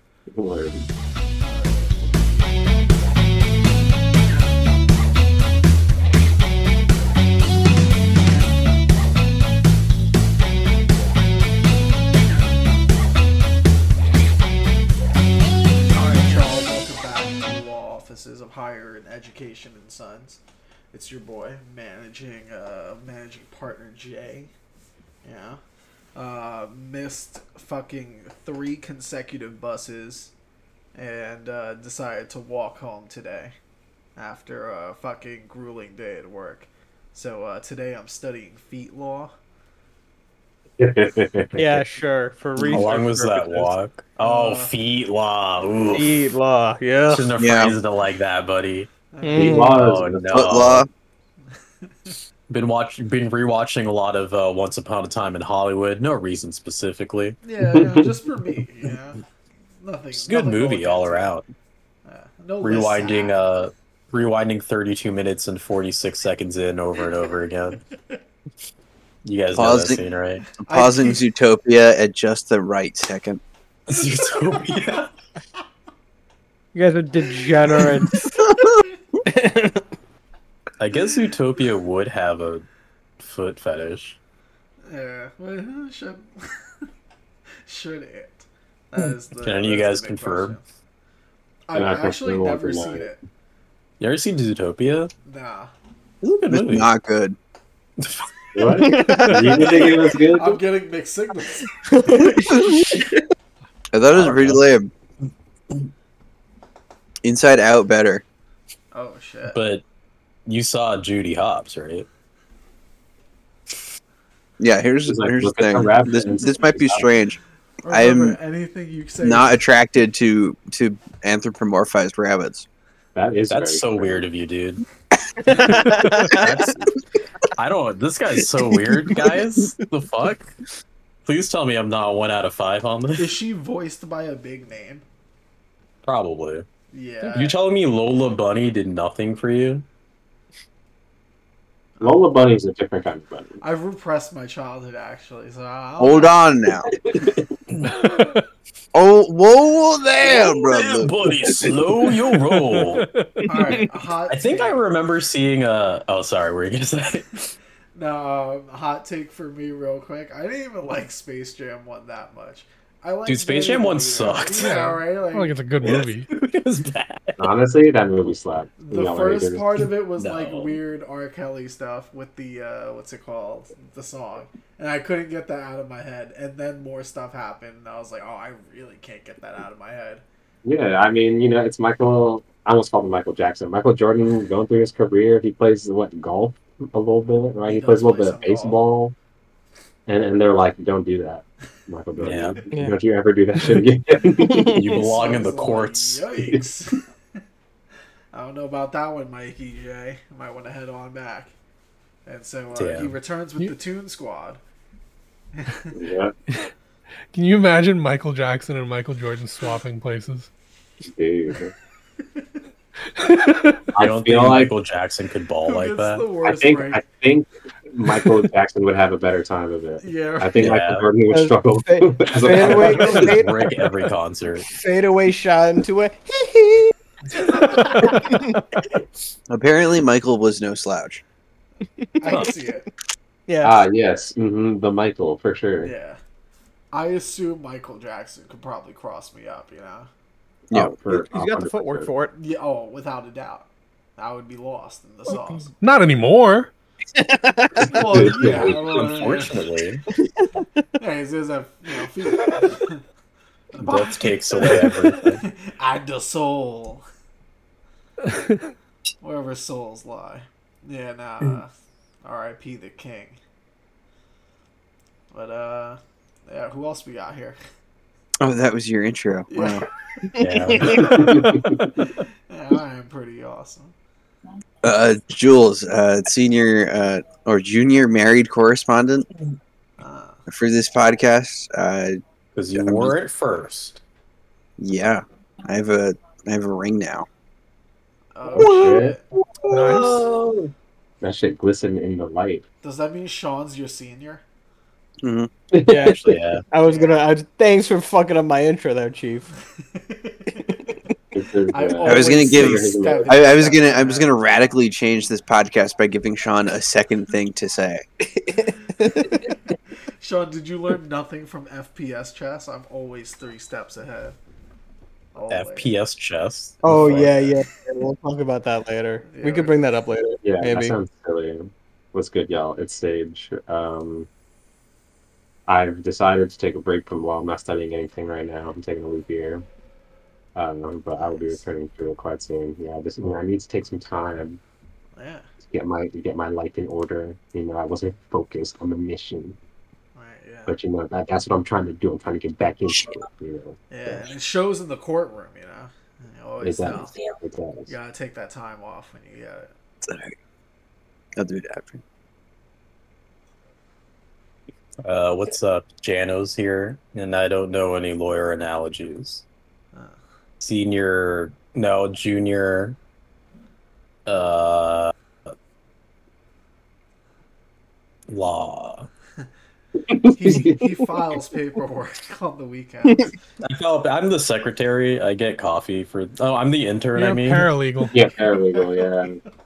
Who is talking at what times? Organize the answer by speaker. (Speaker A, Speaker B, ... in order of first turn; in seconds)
Speaker A: 0.3-0.8, 40.8-41.8, 49.3-50.4, 57.6-58.1, 91.7-93.1, 98.5-100.6, 115.1-117.1, 123.1-124.3, 142.0-143.6, 146.9-147.5, 167.4-169.8, 180.6-189.1, 190.1-194.8, 205.9-206.3, 211.0-211.7, 213.9-214.7, 216.4-223.4, 233.6-235.9, 240.7-242.1, 247.9-248.8, 270.9-271.9, 288.5-289.1, 291.2-292.6, 295.7-296.4, 301.3-303.5, 320.4-324.3, 325.7-329.6, 330.5-334.6, 335.6-339.6, 340.7-344.3, 346.6-347.9, 370.1-370.9, 378.1-379.4
Speaker B: 1.4-2.6, 15.9-20.4, 20.9-24.5, 25.2-25.6, 26.1-30.3, 30.9-33.5, 34.1-39.3, 44.2-44.7, 49.1-49.7, 57.4-59.2, 59.8-61.3, 62.0-63.4, 70.6-71.2, 84.8-86.9, 87.6-90.6, 91.7-93.2, 95.2-95.7, 99.4-102.3, 108.9-109.6, 117.8-119.6, 133.2-135.0, 136.9-137.6, 142.0-142.2, 143.6-146.4, 153.5-154.8, 157.9-165.5, 168.8-180.2, 187.7-188.8, 194.9-197.0, 198.3-201.5, 202.2-204.6, 205.5-206.0, 215.7-217.0, 220.0-220.7, 232.2-232.9, 235.8-236.2, 236.9-240.1, 242.3-245.7, 247.8-249.7, 251.0-253.0, 253.7-257.0, 259.2-261.7, 262.2-263.4, 265.3-267.6, 269.5-271.2, 272.0-273.9, 280.0-280.4, 288.3-289.2, 292.8-294.4, 296.8-297.2, 299.9-300.8, 301.7-304.6, 309.3-309.5, 310.2-314.4, 315.3-315.9, 316.8-317.7, 319.2-319.7, 331.1-331.6, 335.1-335.5, 340.1-340.8, 343.9-347.1, 347.9-349.7, 370.3-373.4
Speaker C: 41.5-43.7, 45.9-47.3, 49.2-49.8, 76.7-78.3, 79.2-79.8, 98.8-99.7, 101.8-103.1, 125.5-126.5, 192.7-193.0, 194.4-194.8, 221.3-223.7, 224.7-228.6, 232.0-232.4, 233.5-233.8, 241.1-242.3, 247.1-248.3, 270.8-271.0, 295.9-299.5, 308.5-309.4, 316.8-320.9
Speaker D: 42.6-46.2, 47.1-48.9, 49.6-50.9, 52.5-57.4, 60.1-61.5, 62.6-67.8, 69.2-70.5, 73.9-75.1, 80.8-82.6, 83.2-84.2, 89.0-90.6, 94.0-95.1, 96.2-96.9, 98.0-98.3, 104.1-104.6, 109.5-109.8, 110.5-112.1, 123.5-124.8, 125.5-126.8, 127.5-130.5, 131.2-133.3, 136.0-136.7, 137.2-139.8, 147.7-148.1, 150.2-153.1, 154.3-157.4, 163.2-164.8, 165.8-167.5, 170.2-170.7, 192.2-192.6, 194.6-196.3, 202.7-203.1, 214.0-216.3, 220.6-221.1, 222.5-224.7, 248.6-250.0, 253.8-255.4, 270.4-271.3, 282.5-284.0, 289.8-290.7, 295.9-296.6, 315.5-317.4, 355.0-359.4, 360.6-363.0, 364.2-365.1, 368.3-369.1, 373.6-377.7
Speaker E: 47.4-47.8, 50.3-50.9, 69.5-70.0, 70.6-73.4, 96.5-97.3, 103.9-104.9, 107.2-108.2, 114.6-118.4, 119.2-122.7, 146.0-146.9, 148.9-151.8, 229.5-231.2, 268.4-269.8, 274.8-279.3, 280.5-282.2, 282.7-283.1, 284.8-287.3, 295.2-295.5, 302.0-308.1, 350.0-350.4, 351.4-352.0
Speaker F: 147.9-148.4, 152.5-153.6, 164.5-166.3, 207.3-210.5, 213.2-213.9, 227.8-228.6, 245.8-246.7, 258.3-258.7, 289.7-290.1, 377.1-378.2